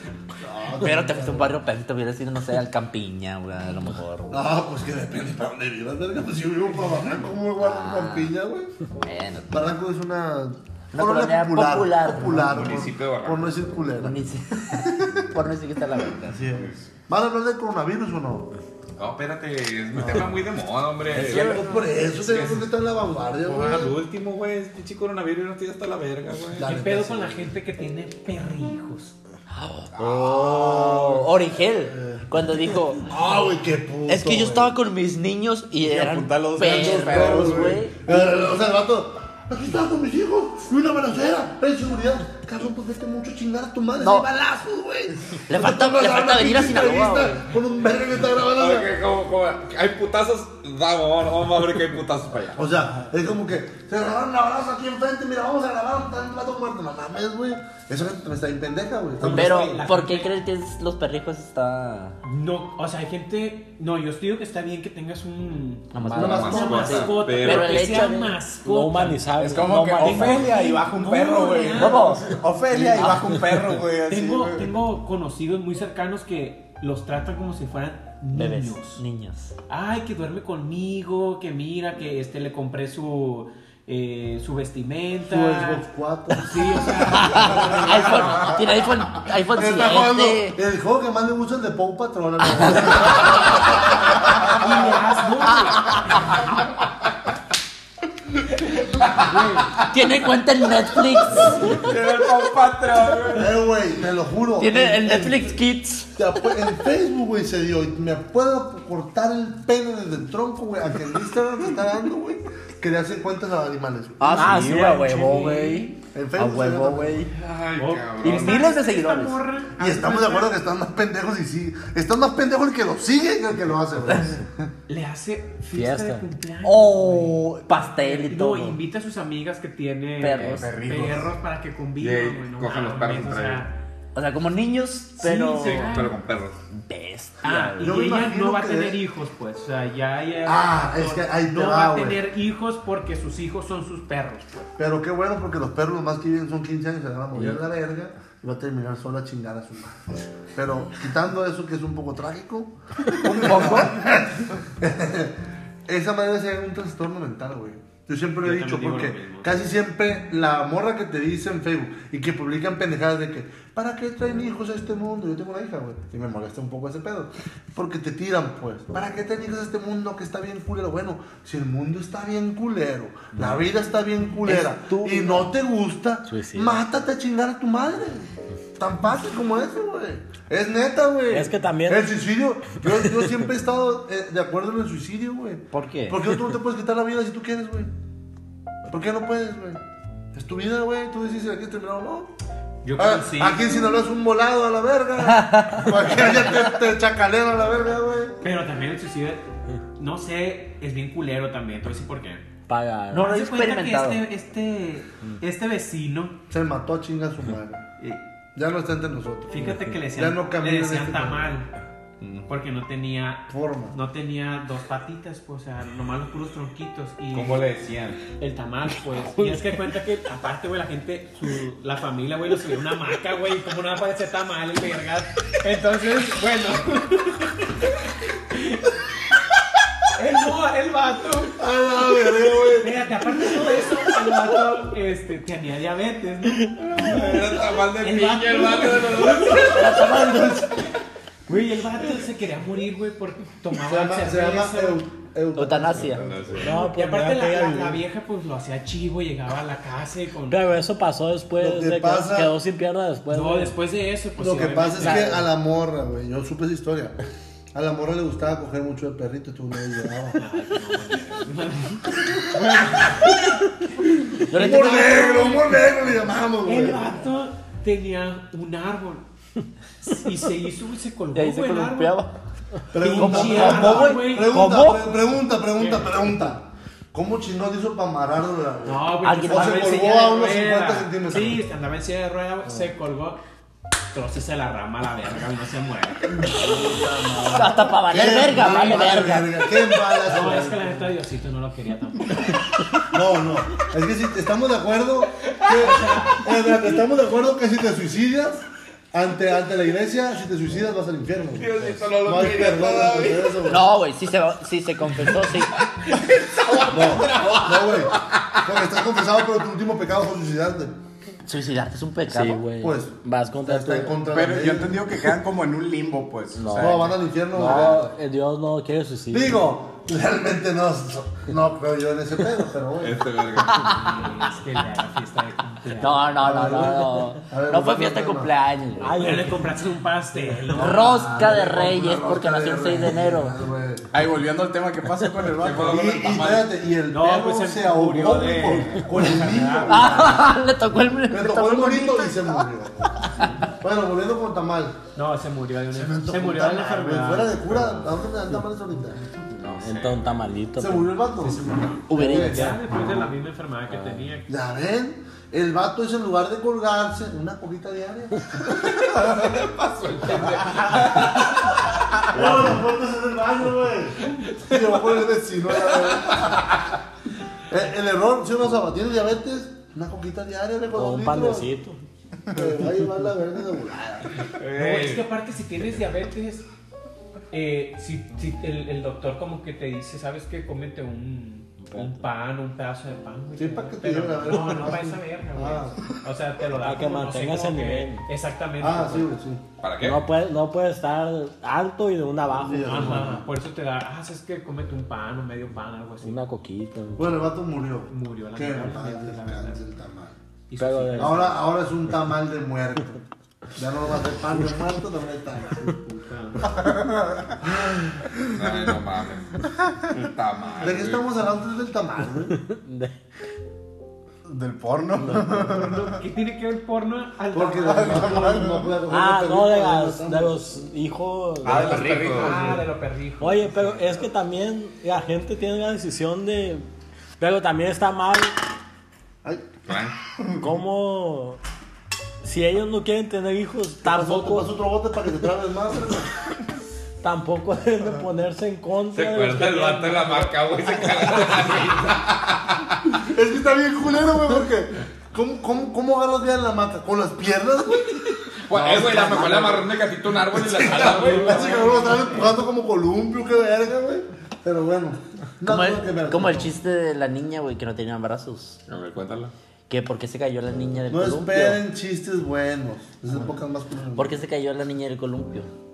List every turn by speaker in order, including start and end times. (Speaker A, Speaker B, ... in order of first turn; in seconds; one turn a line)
Speaker A: 0.4-1.6
Speaker B: 0.8-4.4
Speaker A: 4.3-8.7
Speaker B: 7.6-8.3
Speaker B: 9.0-9.6
Speaker A: 9.5-14.2
Speaker B: 10.9-12.5
Speaker C: 12.3-13.6
Speaker B: 14.0-16.4
Speaker A: 14.7-15.2
Speaker A: 16.2-18.5
Speaker C: 19.0-22.7
Speaker A: 21.1-24.0
Speaker C: 23.4-26.7
Speaker A: 26.6-27.4
Speaker D: 26.6-29.1
Speaker B: 29.5-33.0
Speaker A: 30.0-32.3
Speaker A: 33.0-34.8
Speaker B: 34.1-38.2
Speaker E: 35.8-37.8
Speaker A: 36.7-48.9
Speaker B: 44.0-44.3
Speaker B: 45.5-47.5
Speaker C: 48.5-52.6
Speaker A: 52.6-59.6
Speaker D: 59.2-60.3
Speaker B: 59.2-62.2
Speaker E: 59.3-59.7
Speaker D: 62.2-69.3
Speaker B: 65.9-68.4
Speaker A: 66.1-67.1
Speaker C: 66.2-68.1
Speaker F: 68.6-70.6
Speaker E: 69.4-74.7
Speaker D: 69.9-72.2
Speaker B: 71.8-73.4
Speaker D: 74.1-79.0
Speaker B: 78.3-79.5
Speaker D: 79.7-85.8
Speaker A: 85.3-88.6
Speaker D: 86.4-88.4
Speaker B: 87.0-90.6
Speaker A: 89.5-95.0
Speaker B: 92.5-93.5
Speaker D: 94.5-96.2
Speaker B: 95.5-96.5
Speaker C: 99.0-99.4
Speaker D: 99.2-99.7
Speaker B: 99.9-101.8
Speaker C: 101.5-103.6
Speaker A: 103.3-105.6
Speaker B: 104.6-106.2
Speaker A: 106.2-114.5
Speaker B: 114.2-117.3
Speaker E: 114.3-114.9
Speaker F: 114.4-115.6
Speaker A: 116.1-117.2
Speaker C: 117.3-118.8
Speaker D: 117.8-120.6
Speaker B: 118.2-119.4
Speaker A: 119.8-124.7
Speaker D: 124.9-133.7
Speaker F: 125.8-126.2
Speaker B: 126.6-128.8
Speaker B: 130.2-130.7
Speaker C: 130.3-131.1
Speaker E: 130.5-131.3
Speaker C: 132.0-133.7
Speaker B: 134.2-135.9
Speaker D: 135.2-136.2
Speaker C: 135.6-136.6
Speaker B: 136.7-138.0
Speaker D: 137.4-144.7
Speaker A: 137.8-139.0
Speaker A: 140.4-142.2
Speaker A: 144.8-187.9
Speaker B: 153.2-153.9
Speaker D: 158.4-159.6
Speaker F: 174.5-175.4
Speaker F: 176.3-176.8
Speaker F: 181.3-182.1
Speaker B: 185.7-186.3
Speaker A: 188.9-189.8
Speaker A: 190.3-192.3
Speaker D: 192.8-193.7
Speaker A: 192.9-198.4
Speaker B: 195.2-196.6
Speaker D: 198.4-199.5
Speaker D: 200.0-202.5
Speaker F: 202.7-203.3
Speaker B: 203.1-204.2
Speaker D: 203.1-206.4
Speaker A: 206.5-207.9
Speaker A: 208.6-211.5
Speaker D: 209.5-211.7
Speaker F: 209.6-209.9
Speaker D: 212.5-217.6
Speaker A: 213.5-214.0
Speaker C: 217.3-218.2
Speaker D: 218.4-227.7
Speaker D: 228.5-228.9
Speaker D: 230.1-231.6
Speaker A: 231.6-233.7
Speaker D: 232.8-240.5
Speaker C: 236.9-240.0
Speaker B: 239.6-240.7
Speaker D: 241.5-245.0
Speaker A: 243.7-246.7
Speaker B: 245.6-246.3
Speaker C: 246.0-246.8
Speaker F: 246.6-248.0
Speaker D: 246.6-250.6
Speaker F: 250.5-253.8
Speaker A: 251.6-252.5
Speaker D: 253.3-255.4
Speaker A: 254.4-257.2
Speaker A: 257.7-260.4
Speaker D: 260.4-262.1
Speaker A: 262.2-263.5
Speaker A: 264.4-267.2
Speaker B: 264.5-265.6
Speaker D: 264.6-265.9
Speaker D: 266.6-269.2
Speaker D: 270.0-272.2
Speaker B: 271.3-272.3
Speaker A: 272.9-281.6
Speaker D: 273.0-274.6
Speaker B: 273.0-275.2
Speaker D: 275.8-276.2
Speaker D: 278.9-283.4
Speaker B: 279.2-280.0
Speaker D: 284.1-286.6
Speaker A: 286.3-290.9
Speaker B: 287.5-289.8
Speaker D: 288.5-289.4
Speaker D: 290.2-292.7
Speaker A: 293.1-303.9
Speaker D: 295.7-296.4
Speaker C: 301.6-303.6
Speaker B: 303.6-305.7
Speaker C: 305.8-308.6
Speaker A: 306.8-310.9
Speaker B: 311.4-312.7
Speaker F: 312.3-314.2
Speaker A: 312.8-315.0
Speaker E: 314.2-317.1
Speaker F: 316.6-319.6
Speaker A: 316.8-318.1
Speaker A: 319.3-323.3
Speaker C: 323.0-324.0
Speaker B: 323.6-324.5
Speaker D: 323.8-326.6
Speaker B: 326.0-329.3
Speaker A: 326.4-328.5
Speaker F: 329.0-329.7
Speaker D: 329.1-331.3
Speaker B: 330.7-333.6
Speaker A: 330.7-334.1
Speaker E: 334.1-336.0
Speaker C: 335.6-336.7
Speaker A: 335.8-340.6
Speaker D: 337.1-340.4
Speaker B: 339.9-342.7
Speaker A: 341.3-345.0
Speaker B: 343.3-343.6
Speaker D: 345.1-348.0
Speaker A: 345.9-349.2
Speaker C: 349.6-350.4
Speaker F: 349.7-351.1
Speaker A: 350.8-351.6
Speaker D: 351.4-354.5
Speaker B: 352.1-352.8
Speaker A: 352.2-352.7
Speaker F: 352.2-352.8
Speaker F: 353.9-354.2
Speaker A: 354.5-358.5
Speaker C: 358.7-361.8
Speaker A: 360.4-361.2
Speaker D: 360.9-361.1
Speaker A: 362.3-366.7
Speaker C: 366.2-366.7
Speaker A: 367.7-371.7
Speaker F: 370.9-372.0
Speaker A: 372.5-374.4
Speaker C: 374.6-375.3
Speaker D: 374.7-376.7
Speaker D: 377.5-389.3
Speaker F: 381.8-382.2
Speaker A: 383.6-386.1
Speaker F: 386.8-388.2
Speaker A: 388.8-389.6
Speaker C: 389.8-390.3
Speaker F: 390.0-393.4
Speaker A: 392.6-393.4
Speaker D: 392.8-396.4
Speaker F: 396.2-397.4
Speaker A: 397.2-400.4
Speaker D: 398.1-399.8
Speaker D: 400.7-401.6
Speaker F: 400.8-401.5
Speaker A: 401.2-403.2
Speaker A: 403.8-406.0
Speaker D: 406.1-406.8
Speaker A: 407.6-408.1
Speaker C: 408.5-411.3
Speaker A: 410.8-412.6
Speaker F: 412.6-413.1
Speaker E: 414.4-416.1
Speaker D: 415.7-418.6
Speaker A: 417.5-420.6
Speaker E: 417.9-418.8
Speaker F: 419.1-422.6
Speaker C: 421.6-422.8
Speaker D: 421.6-423.8
Speaker F: 423.4-426.9
Speaker F: 427.4-428.6
Speaker C: 429.9-430.2
Speaker F: 430.6-431.6
Speaker F: 432.4-434.7
Speaker A: 434.0-436.3
Speaker F: 437.2-440.4
Speaker C: 439.1-443.0
Speaker A: 443.1-449.9
Speaker C: 448.7-451.8
Speaker B: 448.8-449.8
Speaker A: 450.4-456.7
Speaker D: 450.8-452.6
Speaker B: 455.6-458.8
Speaker C: 458.9-459.5
Speaker B: 459.9-461.8
Speaker A: 461.1-464.4
Speaker B: 464.2-465.7